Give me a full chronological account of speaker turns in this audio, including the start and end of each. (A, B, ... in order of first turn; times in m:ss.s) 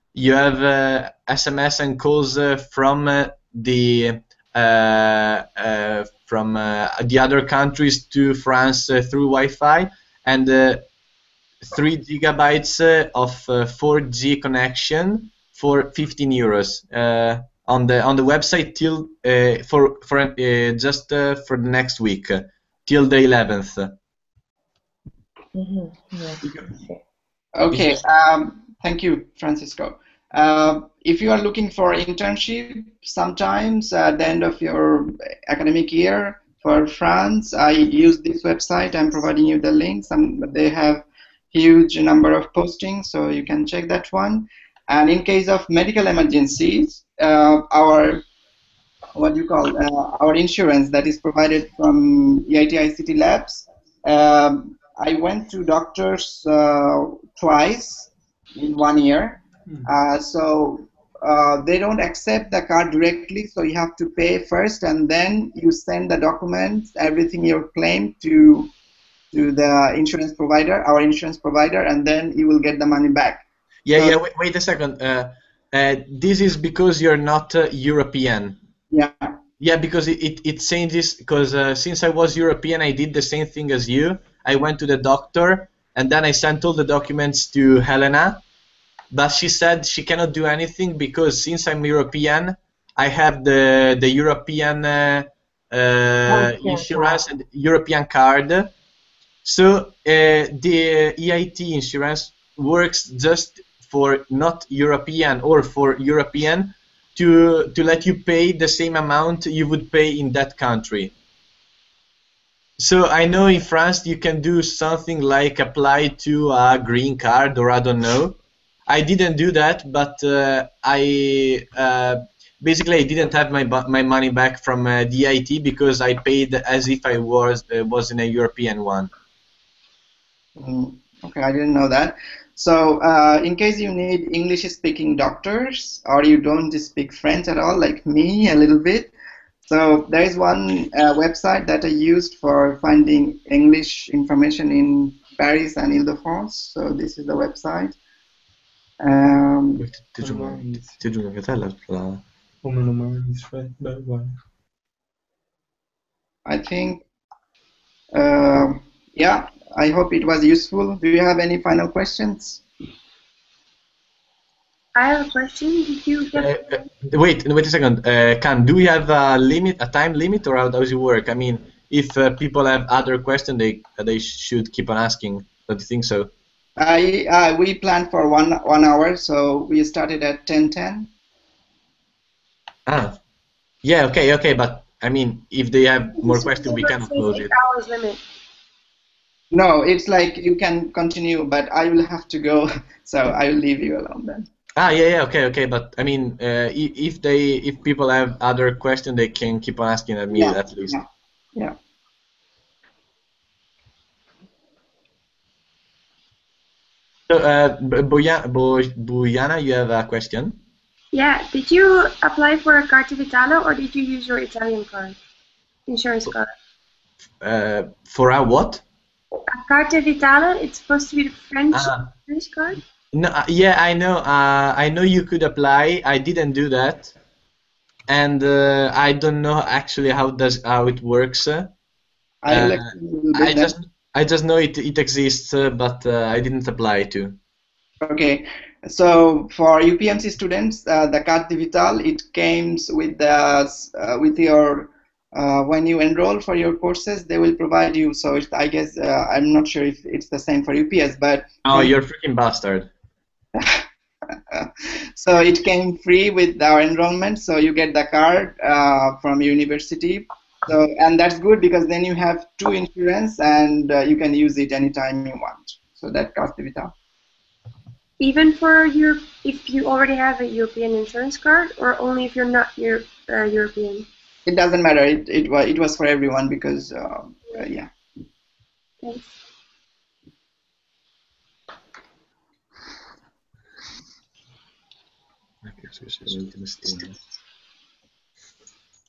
0:00.1-0:10.8 A
0:11.6-0:24.0 A
0:25.5-0:27.0 B
0:27.5-0:48.2 C
0:49.2-1:08.7 C
1:09.3-1:13.4 C
1:13.8-1:18.6 A
1:18.9-1:19.3 C
1:19.6-1:28.4 A
1:29.1-1:38.7 A
1:36.3-1:37.1 B
1:39.4-1:51.1 A
1:52.8-2:09.1 A
2:10.6-2:19.1 C
2:19.6-2:28.0 C
2:29.0-2:29.8 C
2:29.8-2:32.2 A
2:30.2-2:31.0 D
2:32.6-2:34.3 D
2:36.4-2:37.0 C
2:38.1-2:42.6 C
2:44.9-2:46.8 E
2:46.3-2:56.3 A
2:56.8-3:01.1 C
3:02.8-3:03.2 A
3:03.8-3:07.5 A
3:06.2-3:08.2 E
3:09.5-3:14.5 C
3:14.8-3:21.0 A
3:20.3-3:21.8 C
3:27.3-3:30.6 A
3:31.1-3:35.2 E
3:35.9-3:36.5 E
3:37.4-3:38.8 A
3:39.5-3:42.8 E
3:41.7-3:42.1 A
3:43.1-3:47.1 A
3:48.1-3:51.7 A
3:52.4-3:53.7 C
3:52.5-3:57.4 A
3:58.0-4:11.9 C
4:11.6-4:12.9 A
4:13.5-4:13.8 C
4:14.5-4:26.9 C
4:28.2-4:34.1 E
4:34.4-4:37.9 C
4:39.0-4:39.3 E
4:45.6-4:47.2 A